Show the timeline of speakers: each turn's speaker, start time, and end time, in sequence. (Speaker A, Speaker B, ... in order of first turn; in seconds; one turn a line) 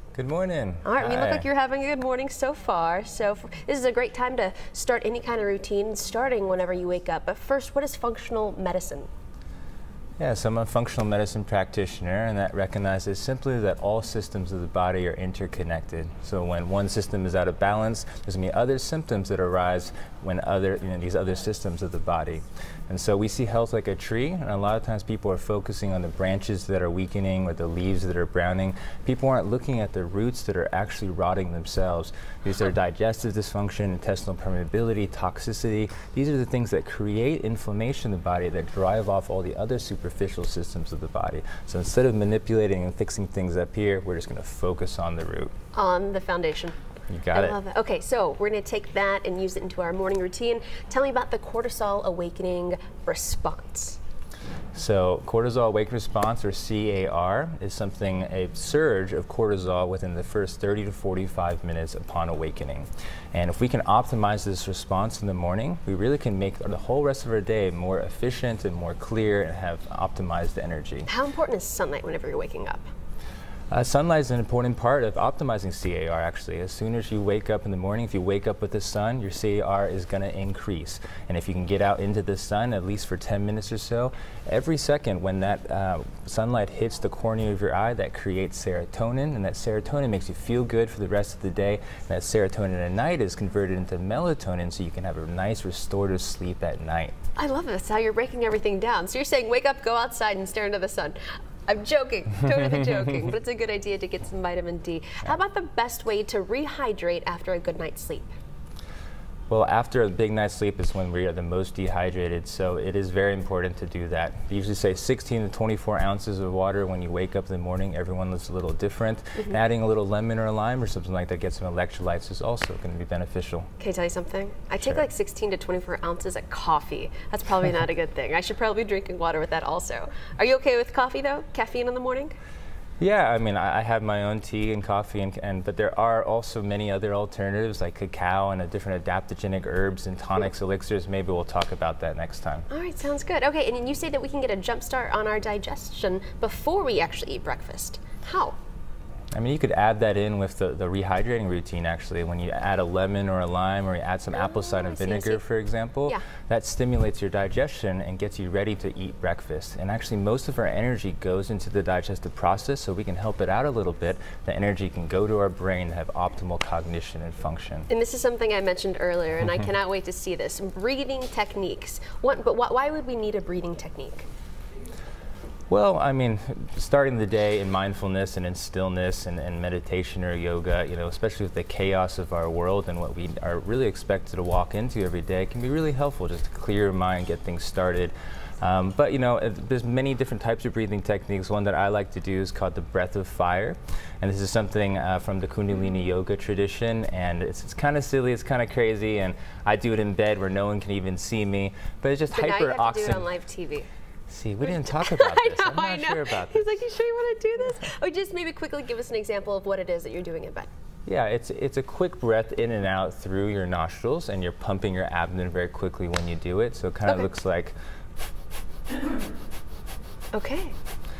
Speaker A: 0.1-1.4
Speaker B: 0.8-9.1
Speaker A: 10.2-45.5
Speaker B: 45.7-46.8
Speaker A: 47.1-47.6
Speaker B: 47.3-54.0
Speaker A: 54.7-71.1
Speaker B: 71.0-72.8
Speaker A: 73.7-97.1
Speaker B: 97.3-108.3
Speaker A: 109.5-123.7
Speaker B: 123.8-132.3
Speaker A: 133.0-142.7
Speaker B: 142.7-148.6
Speaker A: 149.3-167.9
Speaker B: 154.3-155.4
Speaker B: 167.9-174.2
Speaker A: 175.7-203.2
Speaker B: 202.3-203.9
Speaker A: 204.3-206.8
Speaker B: 204.6-210.7
Speaker A: 211.1-217.7
Speaker B: 220.3-220.7